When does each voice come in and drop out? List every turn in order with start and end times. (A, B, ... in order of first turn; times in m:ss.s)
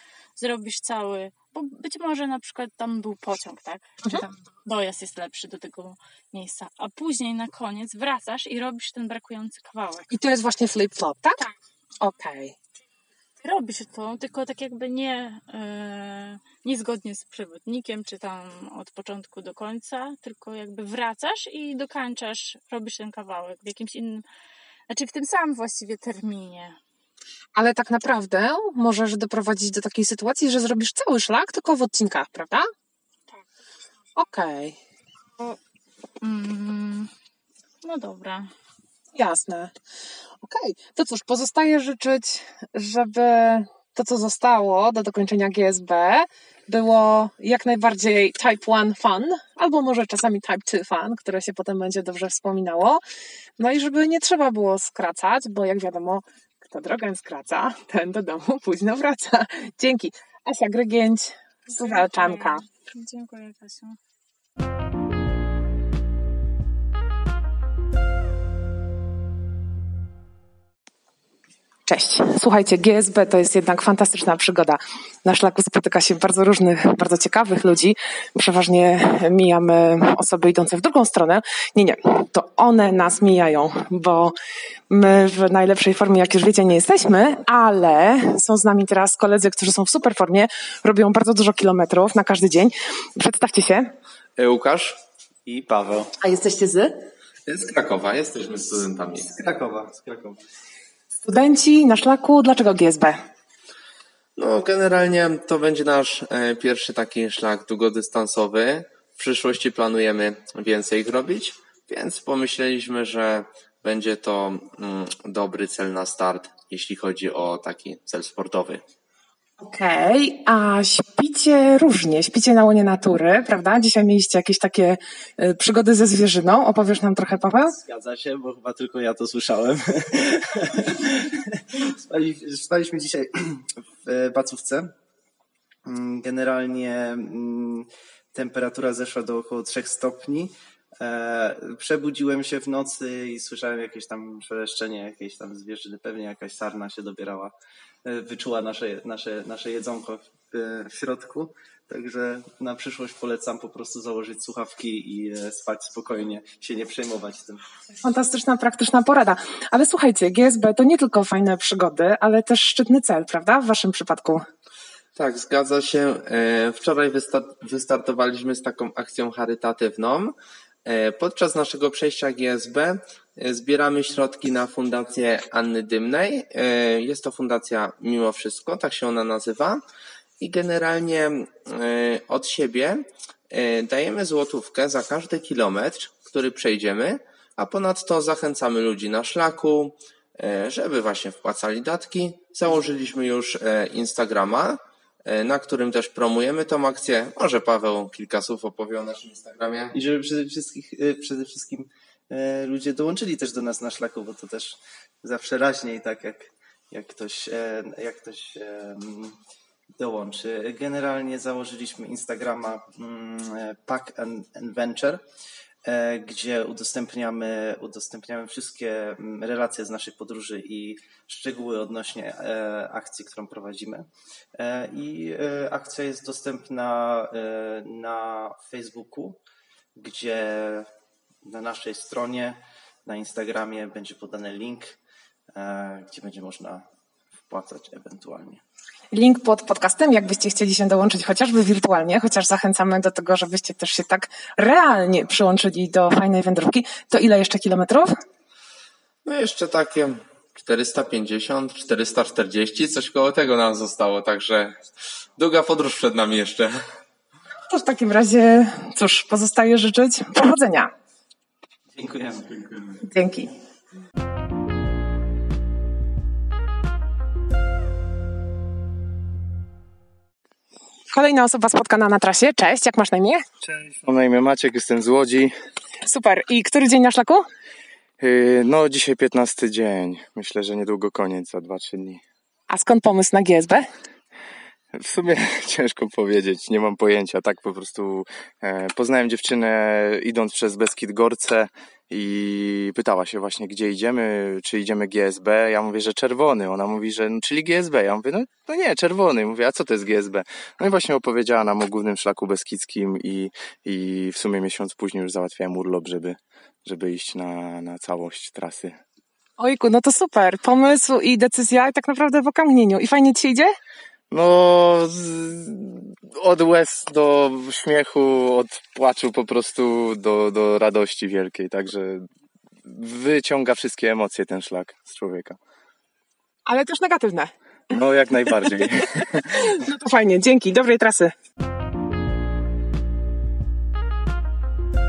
0:00.4-0:10.1 A
0:10.1-0:11.4 B
0:12.0-0:12.6 B
0:13.4-0:24.2 A
0:24.9-0:26.8 A
0:27.6-0:32.7 B
0:34.2-0:34.8 B
0:36.2-0:37.1 A
0:37.8-0:38.5 A
0:39.1-0:39.7 B
0:40.4-0:53.0 B
0:53.6-1:02.6 B
1:01.7-1:04.0 A
1:11.9-1:24.4 B
1:24.9-1:33.9 B
1:34.4-1:35.0 C
1:35.5-1:36.1 D
1:36.2-1:36.9 B
1:37.5-1:39.3 C
1:39.3-1:40.4 D
1:41.2-1:43.2 B
1:44.4-1:58.8 C
1:59.6-2:07.8 B
2:07.7-2:14.9 D
2:15.8-2:27.5 D
2:28.0-2:37.6 D
2:38.0-2:44.4 B
2:45.2-2:59.8 C
3:00.4-3:19.9 C
3:19.9-3:29.4 D
3:30.0-3:35.2 D
3:35.8-3:49.4 D
3:50.0-3:50.9 D
3:51.4-3:55.0 D
3:55.5-3:56.8 D
3:57.5-3:58.6 D
3:59.1-4:08.1 B
4:09.2-4:14.8 C
4:15.4-4:16.7 C
4:17.7-4:20.9 B
4:21.9-4:23.0 D
4:23.0-4:23.5 B
4:31.1-4:33.4 B
4:34.0-4:35.5 E
4:36.0-4:37.4 B
4:38.2-4:42.2 E
4:42.7-4:43.9 B
4:44.9-5:09.0 E
5:09.6-5:13.7 B
5:14.3-5:22.3 E
5:22.9-5:25.6 E
5:26.7-5:27.5 B
5:27.9-5:29.7 E
5:29.5-5:31.3 B